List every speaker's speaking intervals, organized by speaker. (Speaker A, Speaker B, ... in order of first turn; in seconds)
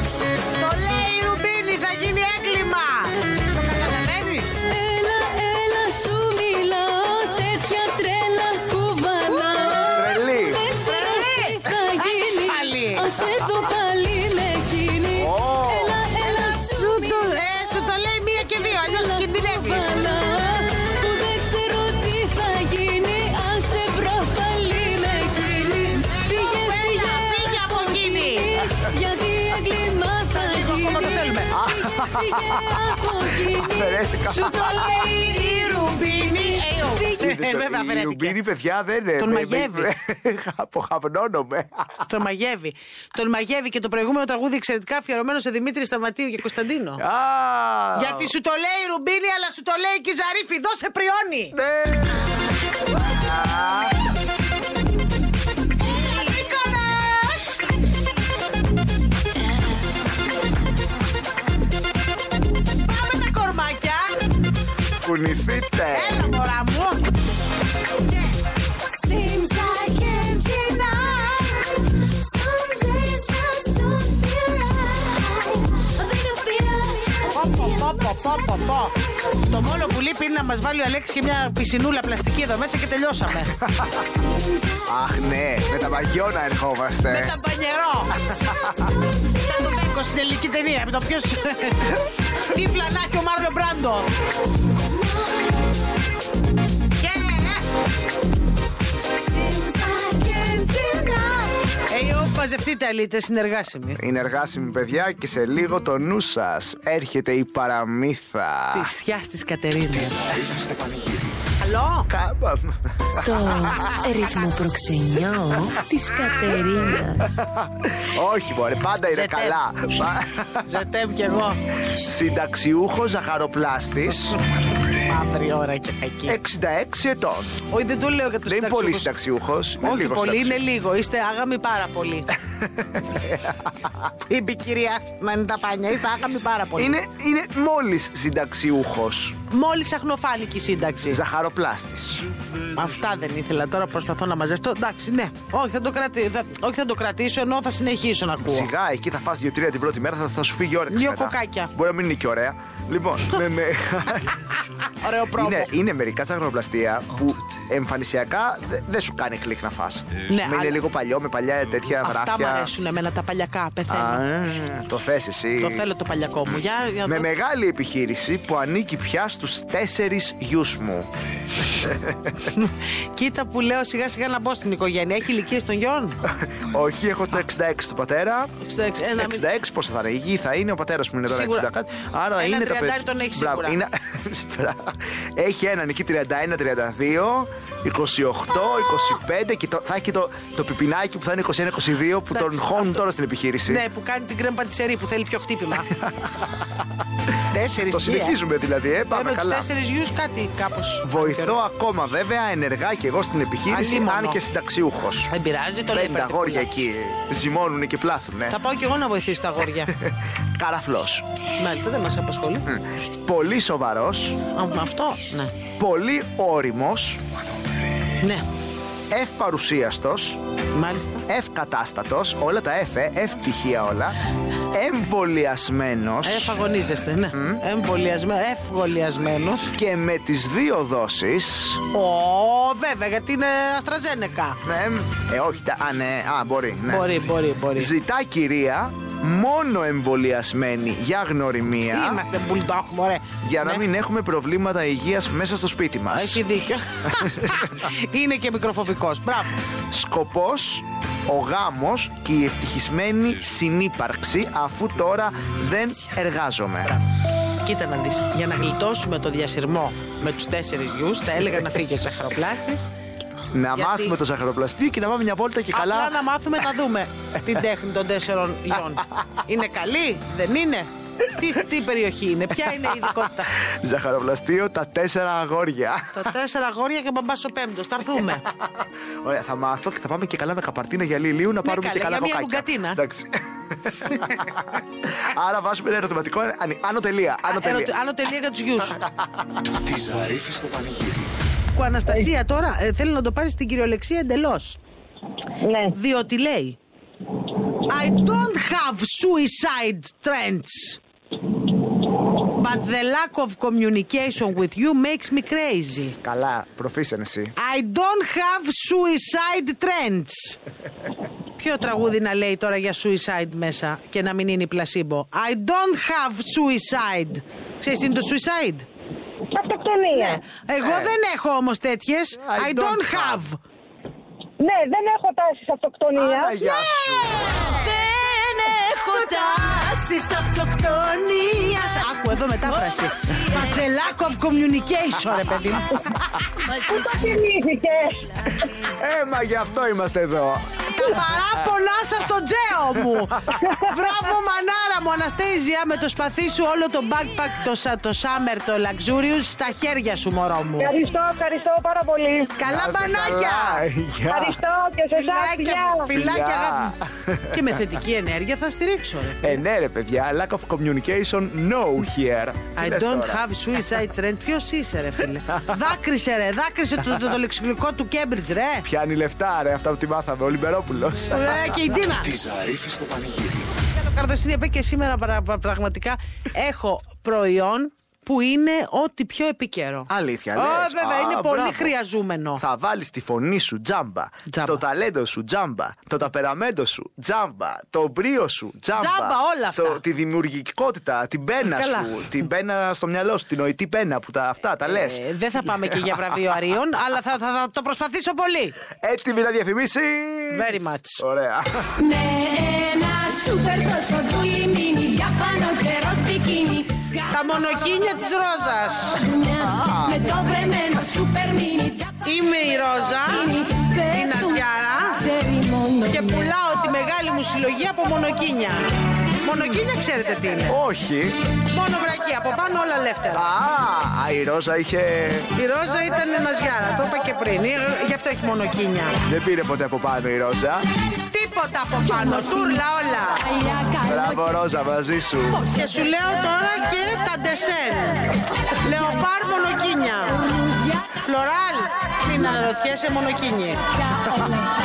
Speaker A: 0.6-4.6, 10.8-13.1, 16.2-20.1, 26.1-28.5, 30.3-31.5, 34.6-38.4, 39.2-39.9, 42.1-47.0, 47.9-51.5, 55.9-57.6, 62.8-64.1, 65.9-67.0, 77.3-83.5, 87.0-88.2, 89.3-94.1, 97.0-97.6, 101.9-104.0, 108.7-110.4, 111.6-112.1, 119.1-119.6, 120.7-121.6, 125.0-126.4, 127.7-129.1, 129.8-132.3, 134.3-137.0, 139.5-141.2, 142.7-148.7, 150.9-151.7, 154.8-155.7, 160.3-160.8, 162.0-164.2, 165.6-167.3, 172.5-176.2, 178.6-179.4, 181.3-181.7, 182.4-183.8, 192.3-193.0, 193.7-195.9, 197.5-198.4, 199.1-201.6, 203.7-204.4, 205.3-206.7, 208.5-209.9, 211.6-212.6, 214.5-215.5, 220.7-221.2, 226.2-229.7, 231.9-234.6, 236.9-237.9, 241.9-243.8, 246.1-249.6, 257.6-262.9, 263.7-264.1, 265.7-273.6, 276.1-278.4, 281.6-283.0, 287.4-289.0, 291.7-294.8, 295.9-296.8, 297.9-301.0, 302.5-306.1, 307.6-310.6, 311.6-318.9, 320.1-323.6, 327.3-327.9, 329.1-336.2, 340.9-350.9, 352.6-353.9, 355.1-356.9, 357.5-359.6, 362.7-368.9, 371.3-372.3, 373.9-382.6, 384.5-384.8, 388.9-390.0, 391.6-392.2, 394.8-398.7, 400.5-401.2, 407.3-409.3, 412.2-415.3, 416.1-418.9, 419.4-420.8, 421.7-423.5, 425.6-429.1, 431.3-433.7, 435.5-440.5, 441.1-443.8
Speaker B: 4.7-17.3, 18.8-37.2, 68.8-78.4, 84.3-84.9, 99.2-101.5, 327.7-330.0, 402.0-407.2, 409.2-412.1, 413.5-414.0, 415.2-416.5, 433.6-434.2, 444.2-444.7
Speaker C: 9.9-10.6, 15.1-16.0, 31.5-32.9, 33.4-34.9, 37.2-42.1, 47.0-48.3, 51.5-52.2, 53.0-53.9, 65.0-66.3, 83.6-83.9, 84.8-87.4, 88.3-88.7, 104.0-108.9, 112.1-113.5, 117.4-120.6, 121.9-124.4, 126.3-127.6, 128.4-130.6, 132.6-134.1, 136.8-139.4, 141.0-142.3, 148.4-154.5, 155.3-162.7, 163.9-165.8, 167.0-171.1, 171.8-172.3, 176.3-178.5, 179.1-193.8, 195.9-196.7, 197.8-199.7, 201.0-205.3, 205.9-208.6, 209.9-211.2, 212.6-214.4, 215.8-217.2, 219.1-220.4, 221.3-224.2, 224.7-226.6, 227.3-227.6, 229.7-231.8, 234.6-242.2, 243.4-246.4, 247.2-247.6, 249.9-256.9, 263.5-266.2, 272.9-276.3, 278.5-287.9, 288.9-289.3, 306.1-307.5, 320.8-321.1, 322.4-323.4, 326.2-327.7, 338.8-341.1, 352.6-354.6, 356.1-357.8, 359.4-363.4, 368.8-371.8, 380.1-381.9, 382.6-395.2, 399.0-402.0, 409.5-410.3, 420.7-421.4, 423.3-425.5, 429.2-430.8, 434.0-435.6
Speaker D: 109.9-111.5, 289.7-291.4, 372.0-373.9
Speaker E: 113.2-117.4
Speaker F: 295.6-295.9, 319.5-320.4, 324.6-326.6, 336.8-338.2, 343.6-343.9, 350.8-352.6, 354.3-356.1